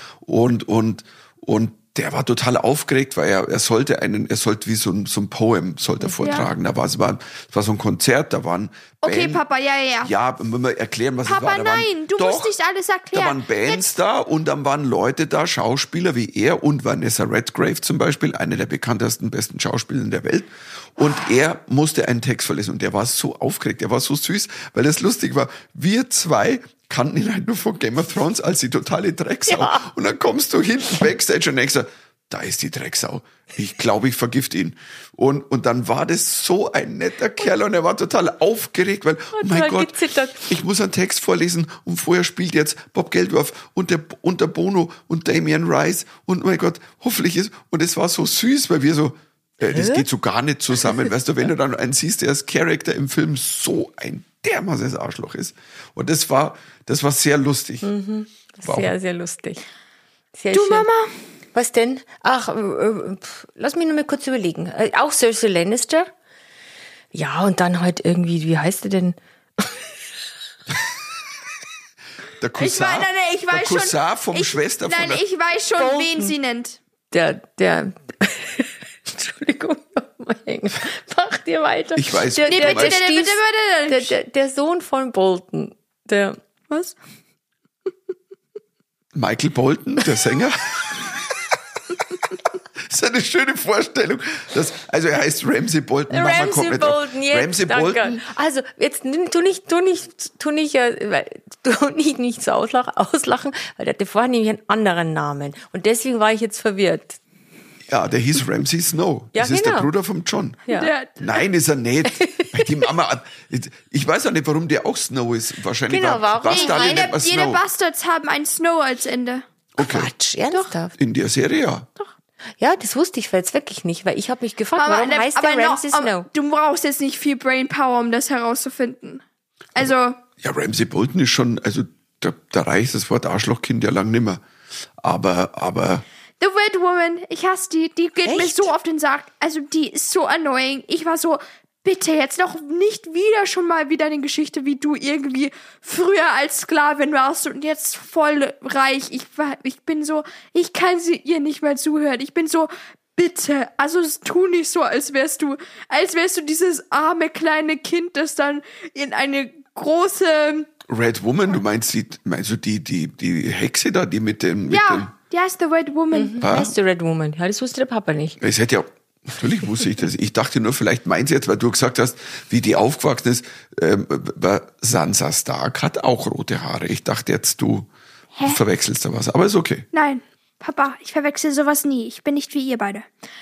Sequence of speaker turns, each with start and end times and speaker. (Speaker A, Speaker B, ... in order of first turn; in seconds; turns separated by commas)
Speaker A: 0.2-9.4, Speaker B: 6.0-6.4, Speaker C: 9.0-10.1, Speaker A: 10.0-12.5, Speaker C: 11.2-13.9, Speaker A: 13.1-57.9, Speaker B: 29.5-29.8, Speaker B: 39.3-40.5, Speaker B: 49.7-50.0, Speaker B: 57.8-59.6, Speaker A: 58.6-58.9, Speaker B: 60.3-60.9, Speaker C: 60.5-61.1, Speaker B: 61.5-66.1, Speaker B: 67.1-69.9, Speaker A: 72.4-75.2, Speaker C: 72.6-76.8, Speaker B: 75.8-76.3, Speaker B: 77.1-86.4, Speaker A: 81.9-83.0, Speaker C: 82.5-84.1, Speaker C: 86.7-87.0, Speaker A: 89.1-91.1, Speaker A: 92.8-98.2, Speaker B: 96.1-107.2, Speaker A: 107.9-110.6, Speaker B: 109.3-109.9, Speaker B: 110.7-110.9, Speaker C: 110.7-111.2, Speaker A: 111.2-117.6, Speaker B: 112.2-112.8, Speaker B: 115.9-117.1, Speaker C: 116.5-119.4, Speaker A: 119.8-120.1, Speaker B: 119.8-120.9, Speaker A: 121.0-121.9, Speaker B: 122.6-126.3, Speaker C: 124.8-129.2, Speaker C: 129.7-130.2, Speaker A: 130.4-134.4, Speaker A: 135.0-136.0, Speaker C: 136.4-160.7, Speaker B: 138.2-138.7, Speaker A: 160.9-165.1, Speaker C: 164.7-166.5, Speaker B: 166.1-168.4, Speaker A: 166.4-166.7, Speaker A: 168.4-177.9, Speaker C: 178.3-178.6, Speaker A: 178.4-179.9, Speaker C: 179.9-183.1